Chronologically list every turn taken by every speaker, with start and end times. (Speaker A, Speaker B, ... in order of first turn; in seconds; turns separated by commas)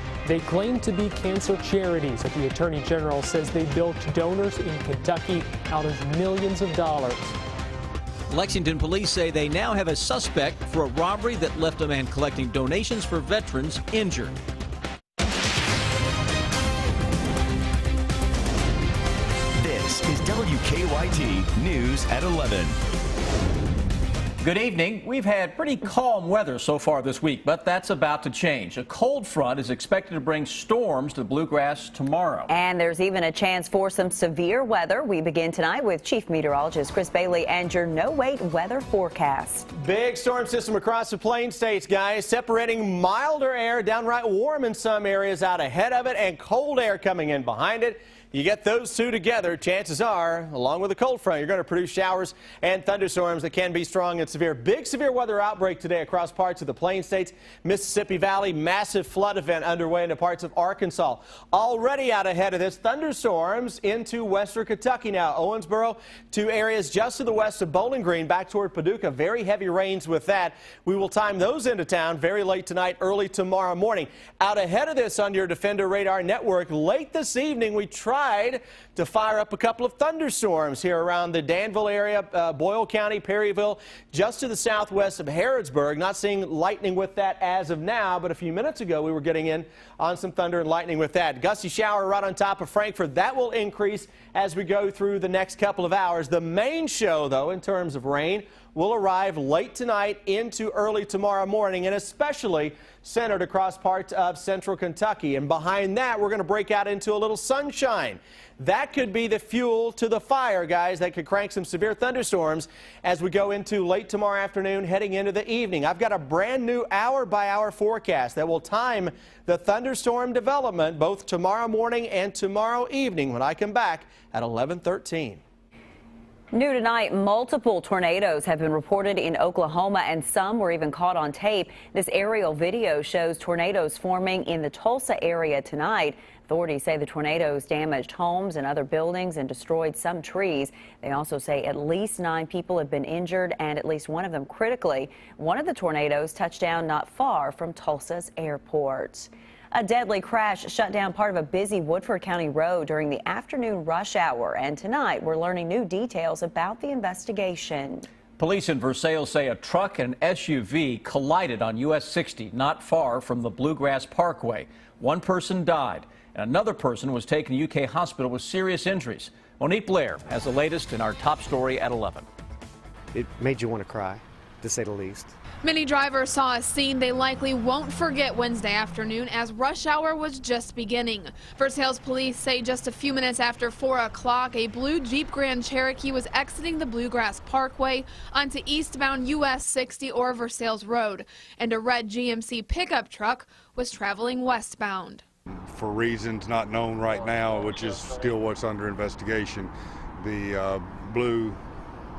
Speaker A: 0.2-7.4, Speaker B: 8.3-14.3, Speaker C: 19.6-22.8, Speaker B: 24.4-32.5, Speaker D: 32.5-39.7, Speaker E: 39.7-125.4, Speaker D: 126.5-158.1, Speaker B: 158.4-172.3, Speaker F: 173.1-175.3, Speaker G: 175.6-195.2, Speaker H: 195.6-201.6